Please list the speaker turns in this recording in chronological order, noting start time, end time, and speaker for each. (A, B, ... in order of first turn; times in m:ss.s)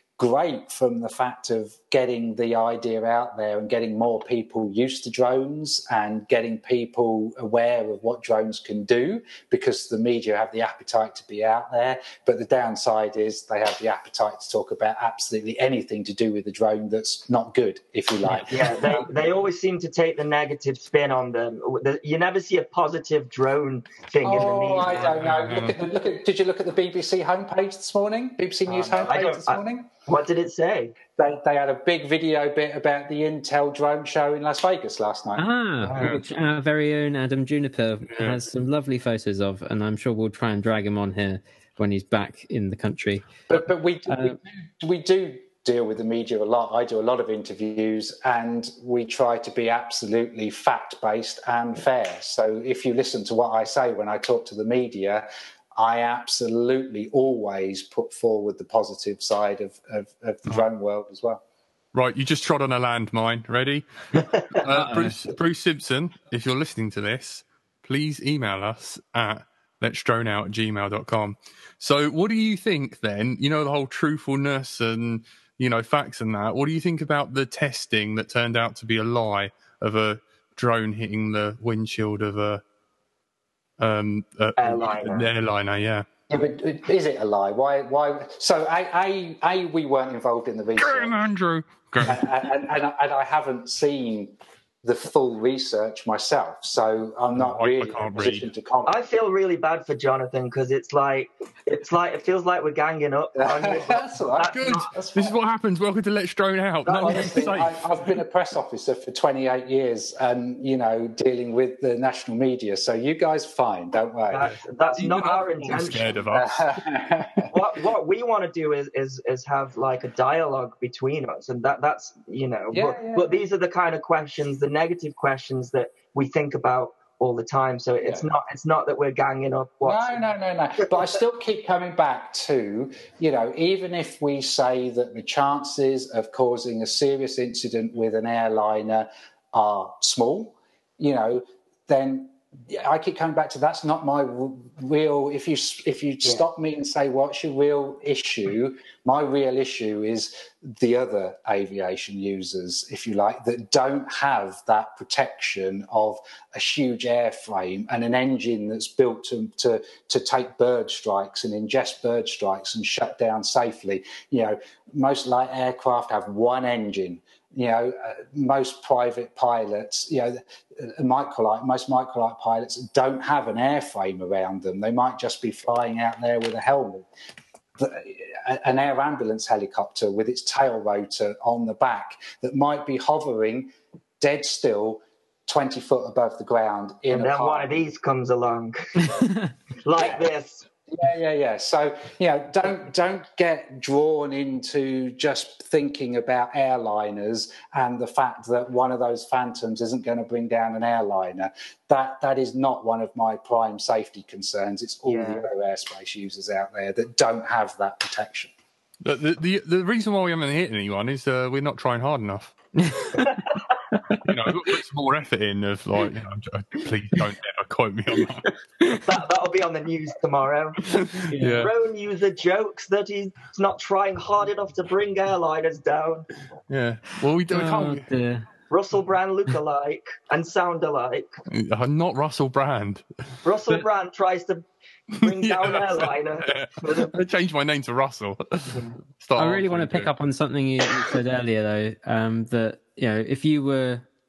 0:00.2-0:19.1 A
0:18.5-0:25.2 B
0:24.2-0:29.9 A
0:24.8-0:25.8 C
0:28.7-0:31.0 B
0:31.2-0:35.4 A
0:35.4-0:43.3 D
0:36.0-0:36.2 C
0:38.1-0:38.4 C
0:43.5-1:01.4 A
0:44.1-0:44.4 D
1:01.9-1:22.6 C
1:04.7-1:05.2 D
1:23.8-1:26.1 C
1:24.6-1:25.3 B
1:26.3-1:31.3 A
1:30.8-1:32.3 C
1:32.0-1:38.9 A
1:37.4-1:38.5 C
1:38.9-1:44.9 B
1:43.4-1:45.3 A
1:44.4-1:47.8 C
1:46.9-1:47.6 B
1:47.0-1:54.5 A
1:54.3-1:56.2 B
1:55.0-1:56.8 C
1:56.3-1:57.5 A
1:57.5-2:10.2 B
2:02.7-2:03.4 A
2:09.8-2:57.1 A
2:57.8-3:07.8 A
3:07.1-3:09.2 B
3:09.1-3:09.5 D
3:09.8-3:10.6 B
3:10.0-3:10.3 A
3:10.9-3:28.5 A
3:25.1-3:25.5 B
3:29.0-3:32.6 C
3:32.8-3:33.3 D
3:33.2-3:33.7 B
3:34.2-3:38.5 C
3:39.0-3:41.0 B
3:41.0-3:41.7 C
3:41.3-3:41.7 D
3:41.6-3:46.3 B
3:46.7-3:48.1 C
3:47.5-3:48.5 D
3:48.7-3:51.4 B
3:51.5-3:53.1 C
3:53.4-3:57.1 B
3:55.3-4:00.1 C
3:58.7-3:59.0 B
3:59.4-4:04.1 D